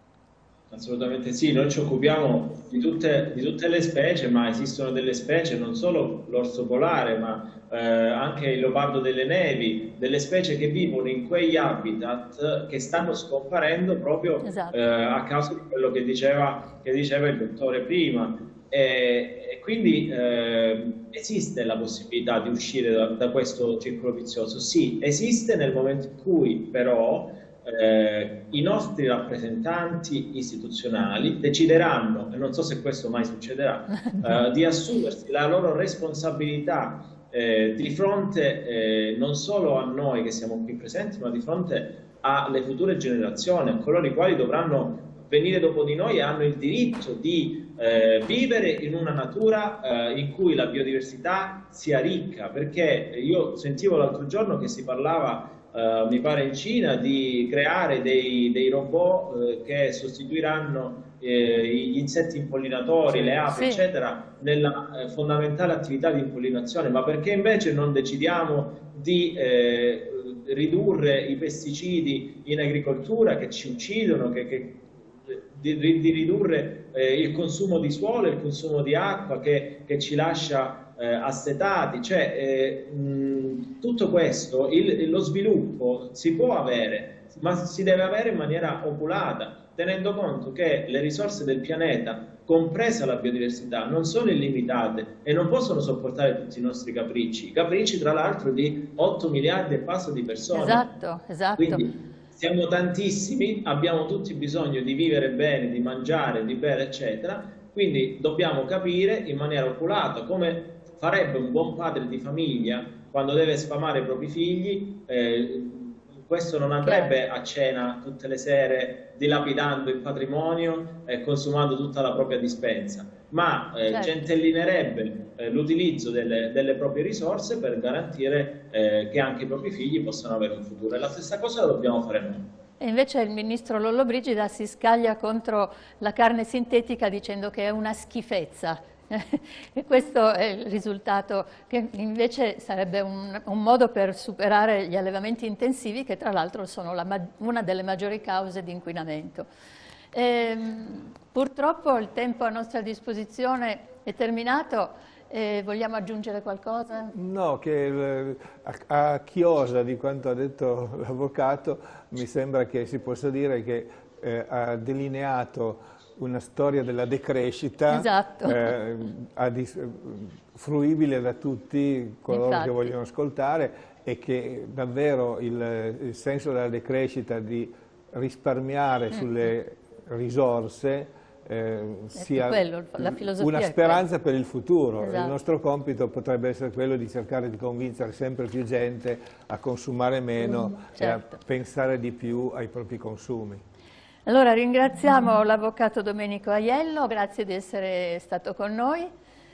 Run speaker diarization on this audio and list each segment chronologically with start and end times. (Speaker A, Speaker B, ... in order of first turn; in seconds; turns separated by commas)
Speaker A: 0.7-100.8, Speaker B: 14.4-14.8, Speaker C: 63.1-63.4, Speaker B: 63.5-63.8, Speaker B: 100.5-101.9, Speaker A: 101.6-132.4, Speaker B: 116.8-117.1, Speaker B: 123.9-124.1, Speaker B: 132.8-149.5, Speaker B: 150.1-157.1, Speaker C: 157.1-193.6, Speaker B: 167.9-168.7, Speaker B: 172.3-172.9, Speaker B: 182.1-184.0, Speaker B: 185.0-185.3, Speaker B: 191.0-191.4, Speaker B: 194.2-199.1